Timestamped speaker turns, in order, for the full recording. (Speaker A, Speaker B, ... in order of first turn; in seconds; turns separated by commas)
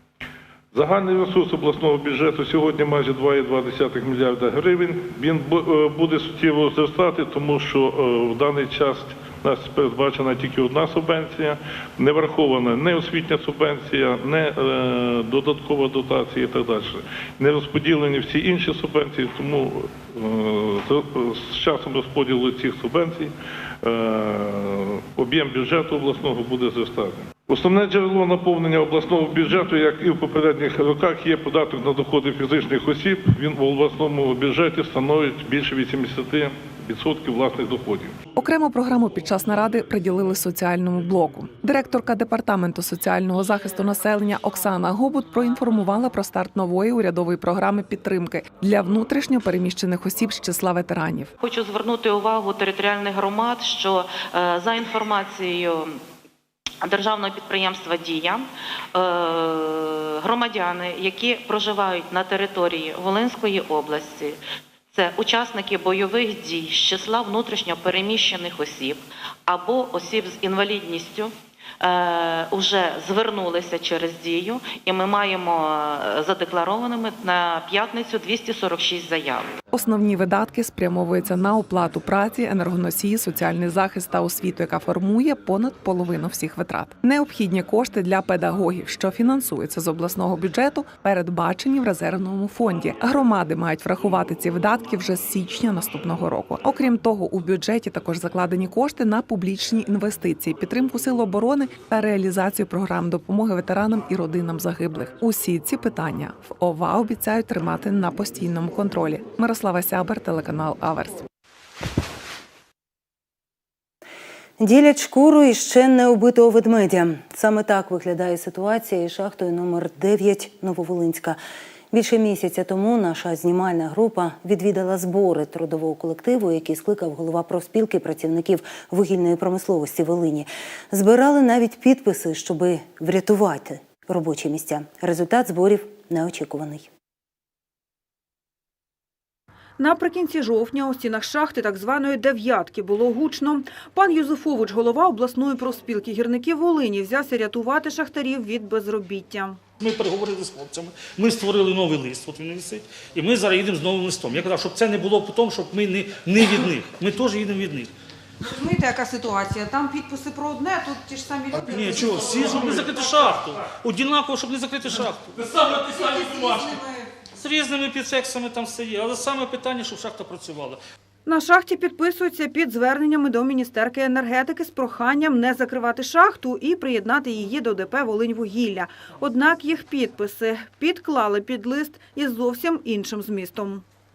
Speaker A: 0.7-38.2, Speaker B: 38.4-51.3, Speaker C: 51.4-56.0, Speaker C: 56.8-64.4, Speaker C: 64.9-79.5, Speaker B: 79.7-111.2, Speaker D: 114.6-121.4, Speaker D: 121.9-136.9, Speaker E: 139.8-149.6, Speaker F: 149.8-157.9, Speaker E: 158.4-163.3, Speaker F: 161.7-166.8, Speaker E: 165.7-167.1, Speaker F: 167.3-170.8, Speaker E: 171.2-183.8